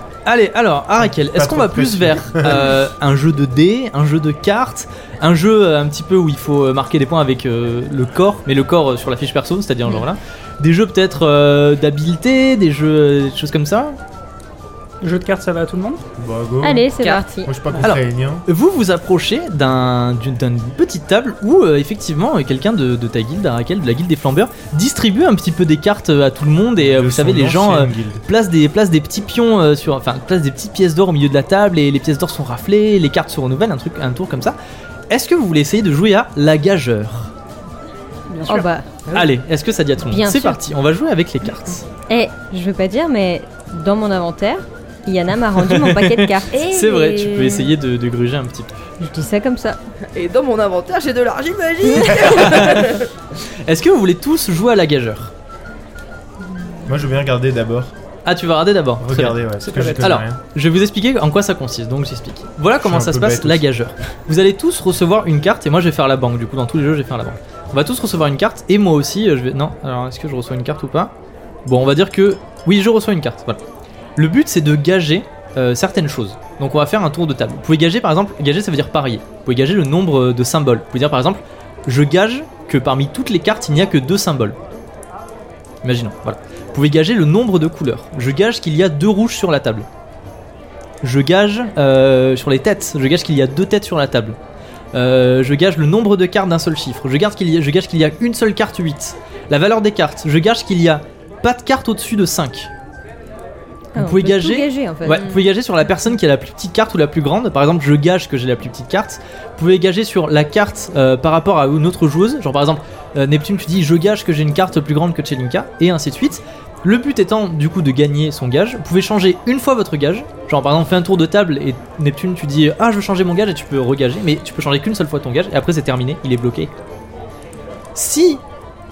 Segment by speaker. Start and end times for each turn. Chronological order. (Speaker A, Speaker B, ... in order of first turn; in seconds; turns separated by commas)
Speaker A: 0.2-14.0, Speaker B: 1.0-2.8, Speaker C: 15.0-16.0, Speaker B: 16.2-16.9, Speaker D: 16.6-17.5, Speaker E: 17.0-17.2, Speaker B: 17.4-18.4, Speaker A: 17.8-34.6, Speaker B: 26.8-28.2, Speaker A: 35.1-37.3, Speaker C: 38.3-38.7, Speaker D: 38.5-39.0, Speaker A: 39.1-41.9, Speaker D: 40.1-40.6, Speaker D: 42.1-47.7, Speaker A: 45.6-48.8, Speaker D: 49.0-49.8, Speaker E: 50.1-53.1, Speaker D: 51.9-52.2, Speaker A: 52.2-52.9, Speaker A: 53.6-55.3, Speaker B: 56.9-57.9, Speaker A: 58.2-59.4, Speaker B: 59.0-60.4, Speaker C: 59.6-60.1, Speaker A: 60.0-71.1, Speaker B: 62.8-63.6, Speaker A: 71.7-73.6, Speaker A: 74.2-84.6, Speaker A: 85.8-89.9, Speaker A: 91.0-94.4, Speaker A: 94.9-102.7, Speaker D: 103.9-105.4, Speaker A: 104.0-126.7, Speaker A: 127.9-128.4